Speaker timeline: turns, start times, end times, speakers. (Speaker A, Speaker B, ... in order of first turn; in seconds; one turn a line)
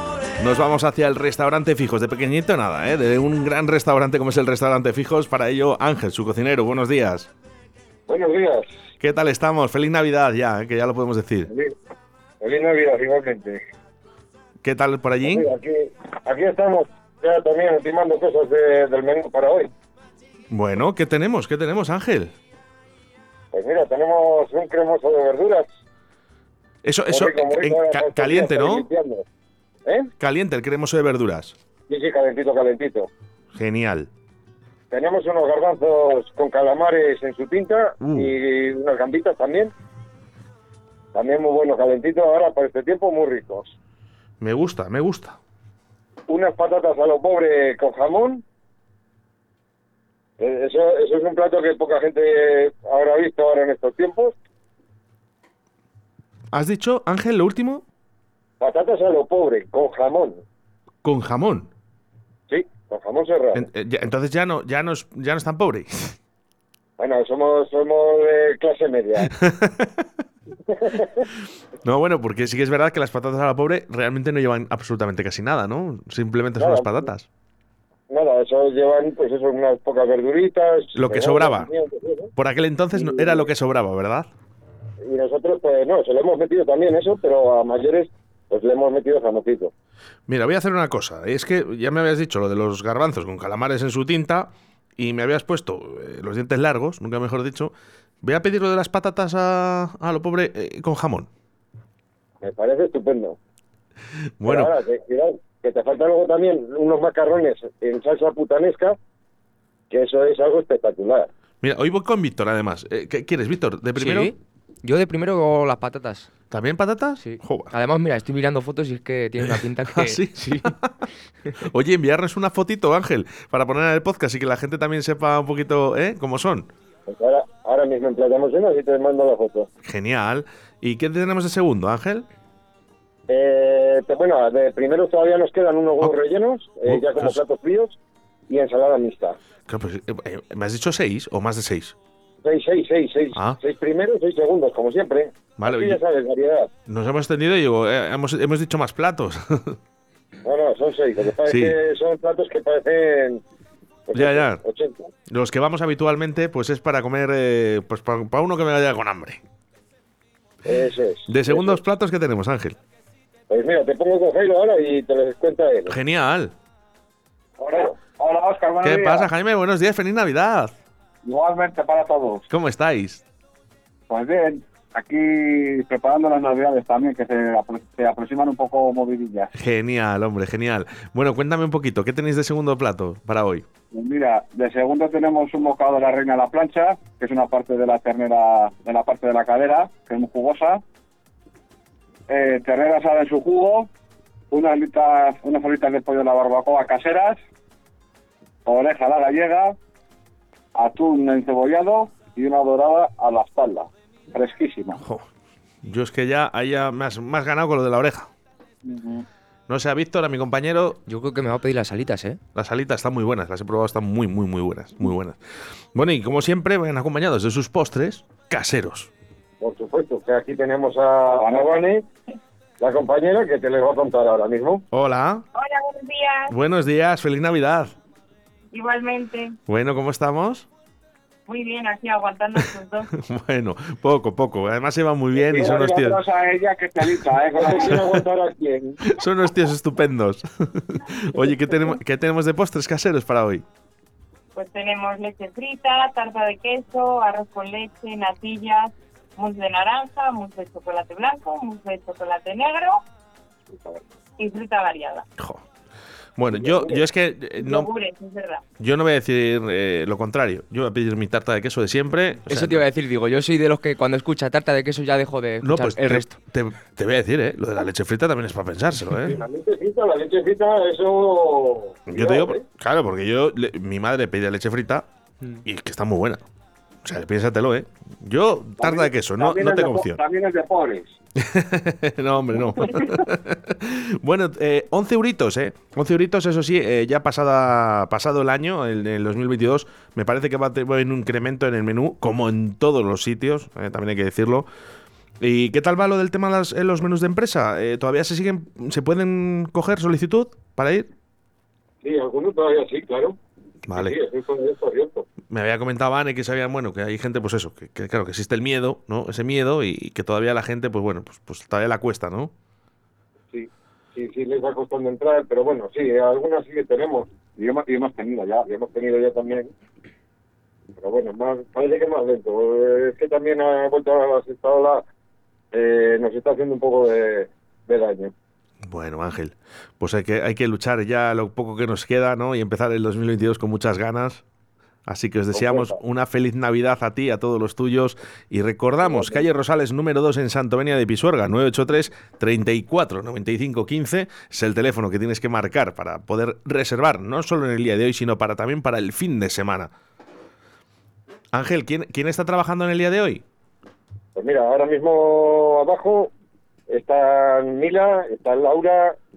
Speaker A: 0.4-7.3
Speaker B: 8.1-8.7
Speaker A: 9.0-11.5
Speaker B: 11.5-11.8
Speaker B: 12.4-13.6
Speaker A: 14.6-15.5
Speaker B: 15.2-19.7
Speaker A: 20.5-22.3
Speaker B: 23.5-25.7
Speaker A: 26.8-28.9
Speaker B: 27.1-29.2
Speaker A: 30.2-31.5
Speaker B: 31.9-33.1
Speaker A: 33.5-34.1
Speaker B: 34.9-39.7
Speaker A: 38.0-38.3
Speaker B: 41.1-43.8
Speaker A: 44.4-45.4
Speaker B: 46.3-48.4
Speaker B: 50.4-54.4
Speaker A: 56.5-57.8
Speaker B: 58.6-60.4
Speaker A: 61.0-61.7
Speaker B: 62.5-63.7
Speaker A: 63.5-66.2
Speaker B: 67.0-69.3
Speaker A: 69.3-70.0
Speaker B: 70.7-71.2
Speaker A: 71.8-77.3
Speaker B: 76.6-77.1
Speaker B: 78.1-82.3
Speaker A: 80.9-81.7
Speaker A: 82.4-84.3
Speaker B: 82.9-83.5
Speaker B: 85.0-89.7
Speaker A: 90.3-101.3
Speaker B: 102.4-103.4
Speaker A: 104.4-104.8
Speaker B: 104.4-109.0
Speaker B: 109.9-111.3
Speaker A: 111.6-114.3
Speaker C: 114.0-116.3
Speaker A: 116.5-117.7
Speaker C: 117.2-120.7
Speaker A: 119.4-121.1
Speaker A: 121.6-126.7
Speaker B: 127.1-129.7
Speaker A: 129.8-132.2
Speaker B: 133.3-139.4
Speaker A: 136.8-137.4
Speaker A: 139.7-141.9
Speaker B: 142.4-146.7
Speaker A: 145.6-146.0
Speaker A: 146.9-149.8
Speaker B: 150.4-153.4
Speaker A: 151.4-151.8
Speaker B: 154.1-155.1
Speaker A: 154.1-154.6
Speaker A: 155.3-159.4
Speaker B: 160.7-161.8
Speaker A: 161.3-162.8
Speaker B: 163.5-165.9
Speaker A: 165.9-166.5
Speaker B: 167.6-168.0
Speaker D: 168.0-169.3
Speaker A: 168.8-170.7
Speaker D: 171.2-172.4
Speaker A: 172.5-173.2
Speaker D: 174.1-179.5
Speaker A: 179.5-183.7
Speaker D: 183.9-190.8
Speaker D: 192.3-193.9
Speaker D: 194.5-197.4
Speaker D: 198.7-199.8
Speaker D: 200.7-205.0
Speaker A: 205.0-205.2
Speaker A: 205.8-208.3
Speaker D: 208.8-209.2
Speaker A: 209.7-211.0
Speaker C: 211.1-212.4
Speaker A: 212.5-215.4
Speaker A: 215.9-219.1
Speaker B: 219.6-222.0
Speaker D: 221.4-221.7
Speaker B: 222.8-224.8
Speaker A: 224.9-225.4
Speaker E: 225.5-226.5
Speaker A: 226.5-227.9
Speaker E: 228.7-229.6
Speaker A: 229.7-230.7
Speaker E: 231.5-233.1
Speaker A: 233.1-236.2
Speaker B: 235.4-236.1
Speaker D: 235.5-238.1
Speaker B: 237.5-239.0
Speaker A: 239.0-243.6
Speaker E: 244.6-253.0
Speaker B: 253.7-254.0
Speaker E: 254.4-255.2
Speaker A: 255.4-255.6
Speaker A: 256.4-257.9
Speaker B: 256.5-257.0
Speaker E: 257.6-258.6
Speaker A: 258.8-262.8
Speaker C: 262.4-266.4
Speaker A: 265.6-269.4
Speaker B: 269.2-272.6
Speaker A: 272.1-275.1
Speaker A: 275.6-276.4
Speaker A: 277.0-280.2
Speaker D: 278.8-281.1
Speaker A: 281.4-294.7
Speaker A: 295.4-301.1
Speaker B: 302.0-303.4
Speaker A: 303.9-304.1
Speaker B: 303.9-305.2
Speaker A: 305.5-312.5
Speaker B: 313.5-317.3
Speaker D: 317.6-318.6
Speaker B: 318.6-319.7
Speaker B: 320.9-325.0
Speaker B: 325.7-328.3
Speaker A: 328.9-334.4
Speaker A: 335.1-349.9
Speaker B: 335.5-336.0
Speaker B: 339.0-339.4
Speaker A: 351.5-353.4
Speaker B: 354.4-356.3
Speaker B: 356.9-359.2